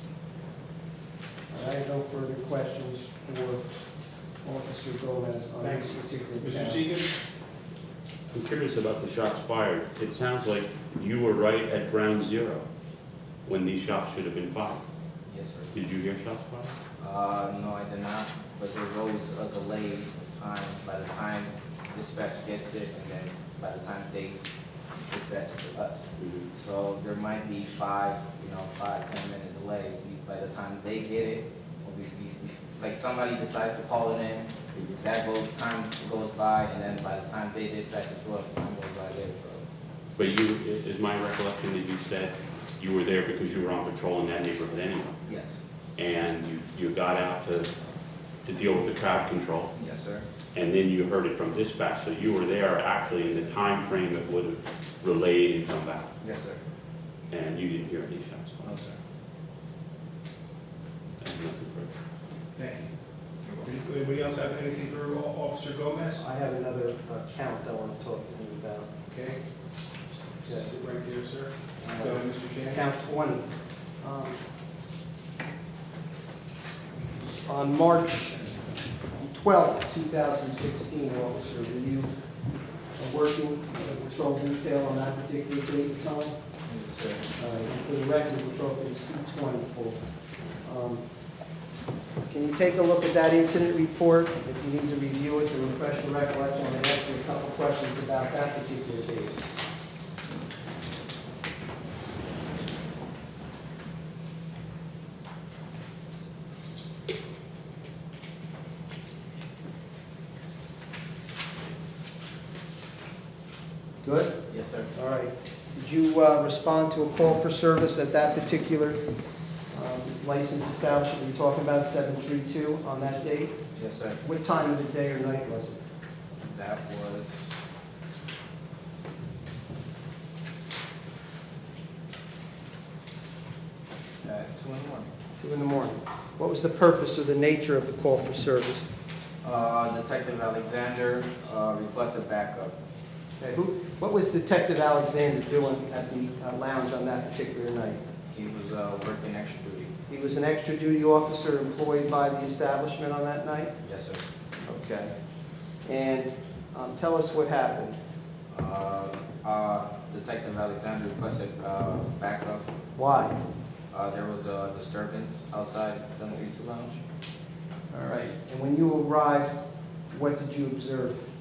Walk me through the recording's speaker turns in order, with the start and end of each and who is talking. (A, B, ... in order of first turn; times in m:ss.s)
0:01.5-0:03.6 A
0:04.4-0:06.8 A
0:05.6-0:07.1 B
0:08.3-0:12.6 C
0:13.5-0:14.8 C
0:15.3-0:15.8 D
0:15.7-0:16.8 C
0:17.0-0:24.4 D
0:25.1-0:39.6 D
0:26.2-0:26.5 C
0:40.2-0:45.2 C
0:45.2-0:45.6 D
0:46.0-0:47.7 C
0:48.4-0:49.7 C
0:49.8-0:50.2 D
0:50.5-0:56.1 C
0:56.2-0:56.6 D
0:57.3-0:58.8 C
0:58.6-0:59.0 D
1:01.2-1:01.9 C
1:02.6-1:02.9 B
1:03.4-1:03.7 D
1:03.6-1:06.2 B
1:06.2-1:08.9 A
1:09.1-1:09.4 B
1:10.4-1:12.9 B
1:10.4-1:10.7 A
1:11.8-1:13.5 A
1:14.0-1:14.4 A
1:17.5-1:18.6 A
1:19.2-1:22.1 A
1:23.0-1:26.4 A
1:26.6-1:27.3 D
1:27.4-1:30.0 A
1:30.6-1:31.0 A
1:32.3-1:39.4 A
1:54.0-1:54.4 A
1:54.5-1:54.9 D
1:54.9-1:59.0 A
1:59.7-2:03.6 A
2:03.7-2:04.2 D
2:04.2-2:05.8 A
2:06.4-2:07.5 D
2:14.2-2:15.1 D
2:15.4-2:18.9 A
2:19.4-2:22.8 D
2:23.4-2:28.0 A
2:28.3-2:29.9 D
2:30.1-2:33.7 A
2:33.8-2:34.2 D
2:34.6-2:35.1 A
2:35.8-2:38.0 A
2:38.5-2:42.7 D
2:43.0-2:43.4 A
2:43.9-2:47.0 D
2:47.9-2:51.3 A